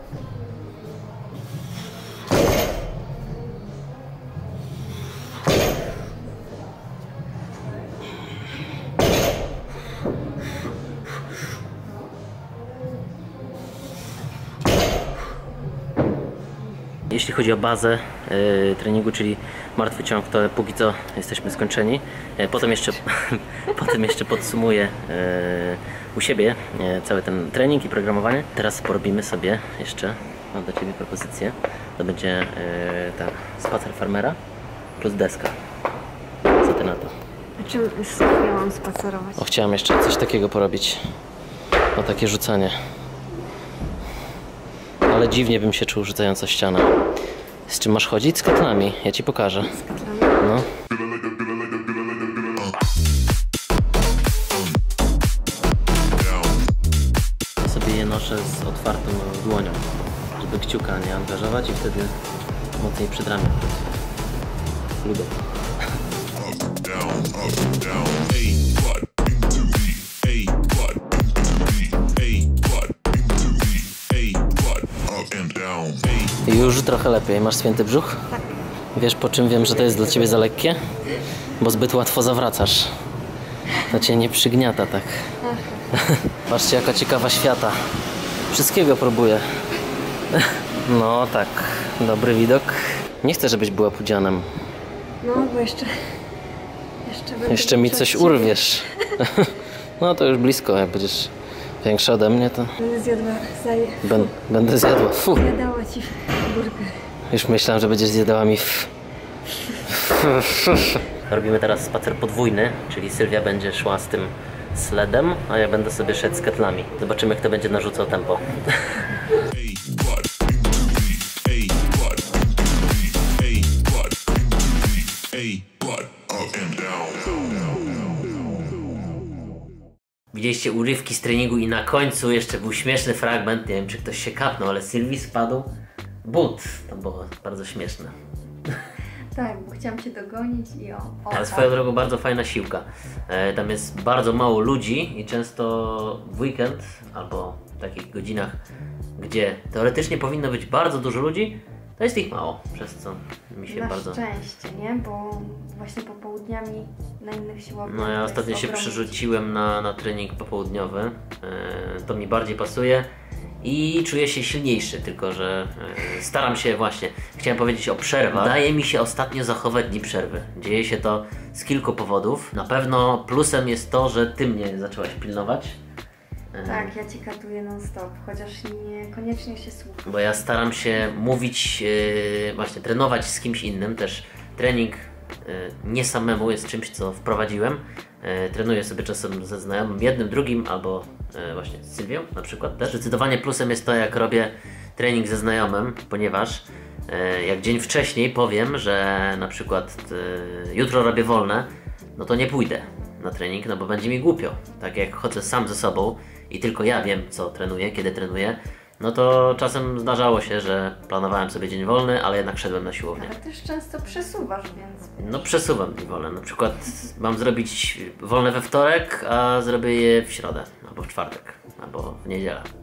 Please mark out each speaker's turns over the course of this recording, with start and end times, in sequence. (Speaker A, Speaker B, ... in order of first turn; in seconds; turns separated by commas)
Speaker A: 17.1-34.4, Speaker A: 35.0-35.5, Speaker A: 36.6-37.1, Speaker B: 37.6-39.5, Speaker A: 39.4-41.0, Speaker A: 42.0-42.8, Speaker A: 45.1-46.9, Speaker A: 47.7-49.8, Speaker B: 49.7-50.4, Speaker A: 50.4-50.7, Speaker A: 57.6-59.8, Speaker A: 60.4-62.1, Speaker A: 62.8-63.7, Speaker A: 65.0-65.4, Speaker C: 66.8-68.8, Speaker C: 70.3-70.6, Speaker C: 72.3-72.6, Speaker C: 74.1-74.5, Speaker C: 75.1-76.0, Speaker A: 76.1-78.3, Speaker A: 78.9-80.8, Speaker A: 81.6-82.9, Speaker A: 83.8-85.3, Speaker B: 85.4-85.9, Speaker A: 85.9-87.8, Speaker A: 88.5-89.5, Speaker A: 90.3-94.5, Speaker B: 95.2-96.2, Speaker B: 97.0-99.0, Speaker A: 97.5-102.7, Speaker B: 102.8-104.3, Speaker A: 104.0-105.5, Speaker B: 105.3-107.0, Speaker A: 107.3-108.9, Speaker A: 109.9-119.0, Speaker C: 123.5-123.8, Speaker C: 125.3-127.7, Speaker A: 130.3-135.7, Speaker A: 136.2-138.1, Speaker B: 139.3-141.7, Speaker A: 141.3-148.6, Speaker A: 149.2-154.2, Speaker B: 153.7-159.2, Speaker A: 157.8-163.1, Speaker A: 163.6-175.8, Speaker A: 176.5-176.9, Speaker B: 176.6-180.4, Speaker A: 180.1-213.3, Speaker B: 213.2-215.3, Speaker A: 215.2-222.7